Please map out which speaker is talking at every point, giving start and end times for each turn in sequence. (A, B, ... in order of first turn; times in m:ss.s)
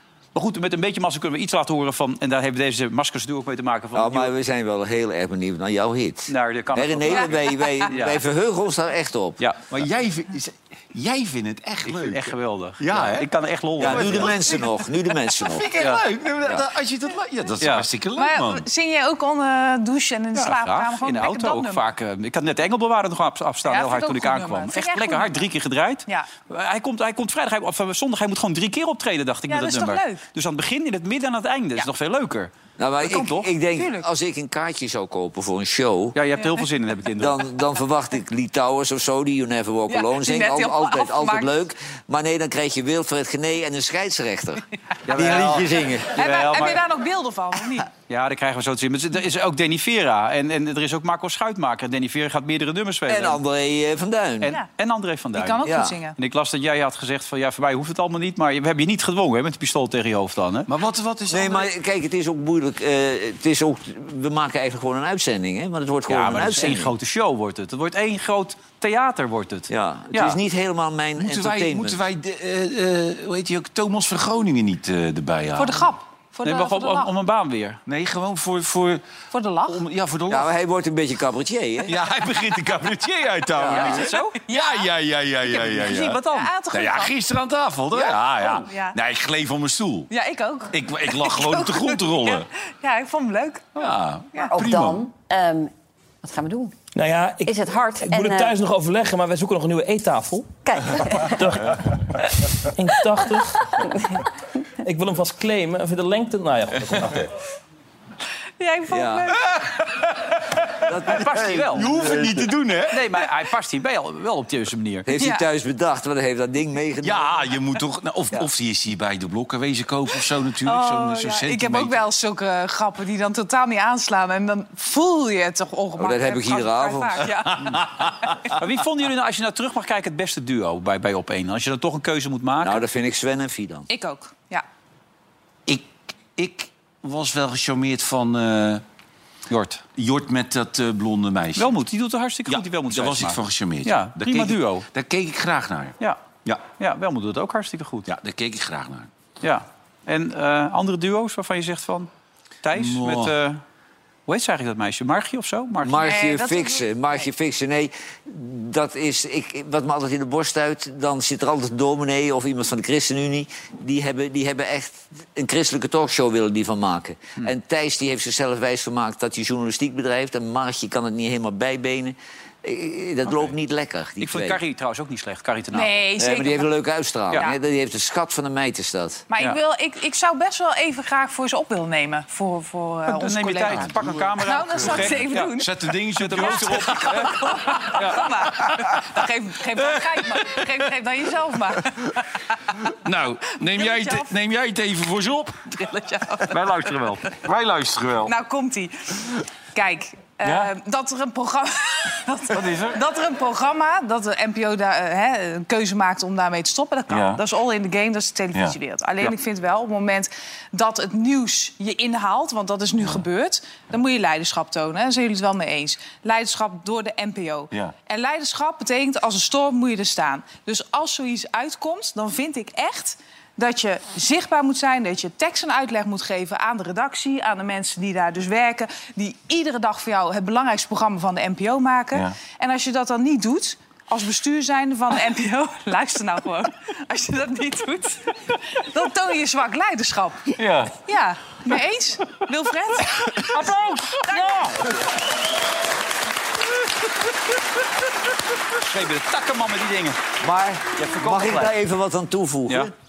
0:00.3-0:04.3 A
0:03.9-0:09.4 B
0:06.3-0:07.3 A
0:07.9-0:08.2 A
0:09.4-0:09.7 A
0:09.7-0:14.7 C
0:11.8-0:14.3 A
0:13.8-0:15.7 B
0:15.4-0:18.6 C
0:17.6-0:17.9 A
0:18.2-0:21.8 D
0:20.3-0:32.5 A
0:23.6-0:25.4 D
0:29.5-0:30.2 D
0:32.8-0:36.2 B
0:33.1-0:33.4 A
0:33.1-0:34.0 D
0:36.1-0:37.4 A
0:37.2-0:46.2 B
0:39.9-0:41.6 D
0:45.0-0:46.8 A
0:46.1-0:47.9 D
0:48.1-0:53.4 A
0:53.1-0:54.6 B
0:54.4-0:55.6 A
0:55.3-0:56.2 D
0:55.6-0:56.0 B
0:56.2-1:00.7 A
1:00.7-1:01.7 C
1:01.3-1:06.9 B
1:06.1-1:10.4 A
1:09.7-1:12.0 B
1:11.2-1:15.9 C
1:15.6-1:17.1 D
1:16.4-1:17.8 A
1:17.8-1:19.0 C
1:19.3-1:19.8 D
1:19.7-1:20.5 C
1:20.3-1:22.0 B
1:21.8-1:26.2 C
1:23.6-1:24.0 B
1:23.7-1:24.4 A
1:24.5-1:24.9 D
1:25.4-1:26.5 A
1:26.3-1:27.1 D
1:26.7-1:30.1 C
1:28.6-1:29.0 D
1:30.1-1:33.6 D
1:30.7-1:32.5 C
1:33.8-1:35.1 C
1:34.5-1:35.7 E
1:36.2-1:36.7 E
1:36.9-1:41.9 F
1:37.4-1:38.5 E
1:40.7-1:41.3 E
1:42.8-1:43.8 F
1:44.8-1:47.3 F
1:48.6-1:49.6 D
1:48.9-1:49.3 B
1:50.8-1:52.2 B
1:51.1-1:51.9 A
1:51.7-1:53.1 C
1:52.9-1:55.1 A
1:55.0-1:57.4 B
1:55.2-1:55.4 D
1:57.0-2:02.0 C
2:00.6-2:07.7 D
2:06.0-2:07.3 B
2:08.5-2:12.8 A
2:12.6-2:13.9 B
2:13.9-2:14.6 D
2:15.7-2:18.8 C
2:19.5-2:19.8 A
2:20.0-2:21.7 C
2:21.6-2:24.8 A
2:22.5-2:26.6 C
2:26.8-2:28.1 A
2:28.0-2:29.1 C
2:29.4-2:32.1 A
2:32.6-2:33.6 A
2:32.7-2:33.3 C
2:34.3-2:36.1 A
2:35.8-2:54.6 B
2:36.0-2:37.3 D
2:54.2-2:56.0 A
2:55.7-2:56.7 D
2:56.2-2:59.2 B
2:59.3-3:05.8 D
3:03.1-3:05.5 A
3:03.9-3:07.9 C
3:06.2-3:08.3 A
3:06.4-3:12.2 D
3:12.9-3:15.5 C
3:13.6-3:14.3 D
3:15.7-3:16.8 D
3:16.5-3:17.3 A
3:17.4-3:18.3 C
3:18.2-4:03.5 D
3:20.4-3:20.7 C
3:22.5-3:23.0 C
3:27.1-3:27.4 C
4:00.6-4:00.9 C
4:03.4-4:04.9 A
4:04.3-4:04.6 D
4:08.8-4:10.2 A
4:10.4-4:12.9 B
4:11.0-4:11.7 A